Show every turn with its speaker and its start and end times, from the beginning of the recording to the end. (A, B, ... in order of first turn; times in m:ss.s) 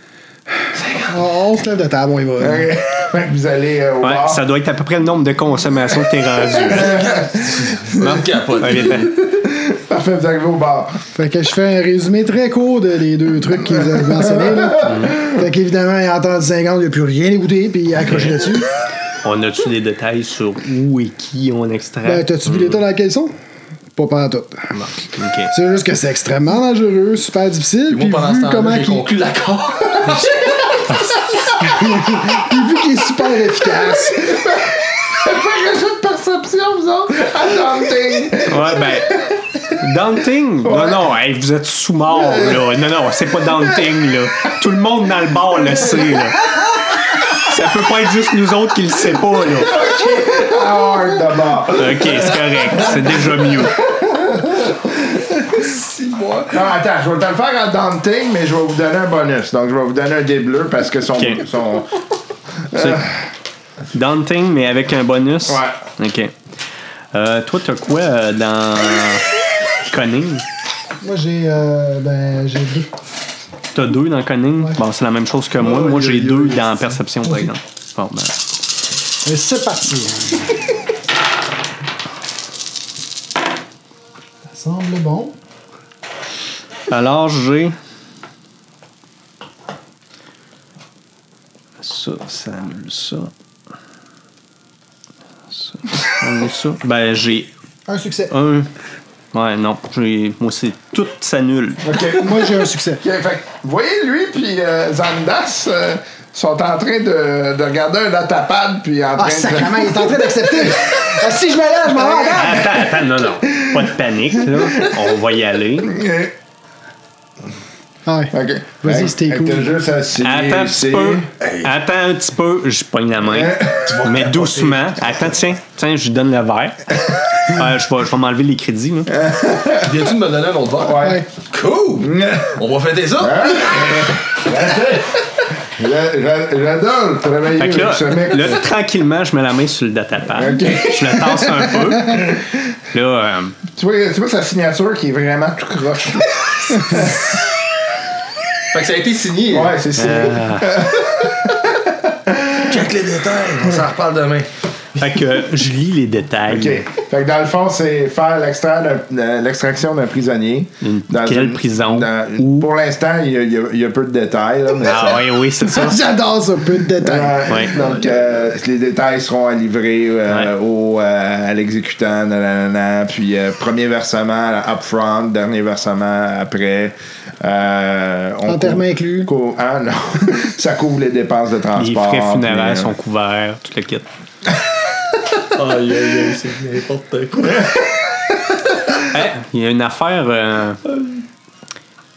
0:00.7-0:01.3 A
0:01.1-0:02.7 B
0:02.4-0:04.4 C
0:04.0-0:07.2 D
0:06.6-0:08.0 C
0:06.7-0:09.0 A
0:08.0-0:09.1 D
0:08.7-0:11.0 C
0:11.1-0:18.7 B
0:13.7-0:15.4 C
0:14.8-0:15.2 D
0:18.0-0:18.3 D
0:19.2-0:22.8 D
0:22.0-0:23.3 B
0:24.0-0:24.8 B
0:24.7-0:25.5 D
0:25.5-0:29.1 B
0:27.9-0:30.3 A
0:31.5-0:34.4 B
0:34.1-0:39.7 C
0:38.5-0:39.2 D
0:39.8-0:46.5 D
0:40.6-0:41.0 C
0:47.3-0:49.7 D
0:49.6-0:52.8 C
0:51.7-0:53.8 D
0:54.0-0:55.1 C
0:55.5-0:56.7 A
0:56.5-1:01.9 C
1:01.1-1:01.4 D
1:02.7-1:03.1 C
1:02.7-1:03.0 D
1:03.9-1:06.3 D
1:05.4-1:05.8 C
1:07.1-1:09.3 D
1:09.8-1:10.4 D
1:11.0-1:12.9 B
1:13.7-1:18.4 D
1:15.6-1:16.9 A
1:19.2-1:20.7 B
1:24.4-1:25.3 B
1:26.9-1:27.8 D
1:31.8-1:33.3 D
1:35.5-1:37.5 D
1:37.9-1:38.3 B
1:38.3-1:38.7 D
1:39.3-1:41.8 D
1:41.8-1:51.2 C
1:42.1-1:43.0 B
1:49.2-1:52.8 B
1:52.1-1:56.0 D
1:54.3-1:54.9 C
1:55.8-1:56.3 C
1:58.0-1:59.7 B
1:58.3-2:01.3 C
2:00.2-2:09.1 D
2:01.4-2:01.7 A
2:03.3-2:03.8 C
2:03.8-2:05.2 A
2:09.1-2:09.9 C
2:09.8-2:14.6 A
2:10.8-2:11.2 C
2:11.0-2:11.2 B
2:12.0-2:12.6 C
2:13.2-2:18.6 C
2:17.5-2:22.4 D
2:20.3-2:22.4 C
2:22.9-2:23.6 D
2:23.7-2:27.4 C
2:28.7-2:29.7 A
2:29.5-2:32.7 C
2:30.0-2:30.7 D
2:32.6-2:35.4 A
2:35.0-2:36.8 D
2:36.5-2:45.2 C
2:40.8-2:42.7 D
2:44.8-2:46.0 D
2:45.6-2:47.7 B
2:47.0-3:02.9 C
2:47.5-2:47.8 D
2:47.8-2:48.0 A
2:58.5-2:59.3 B
3:01.8-3:04.0 D
3:05.5-3:07.7 A
3:09.1-3:10.8 D
3:10.8-3:11.2 A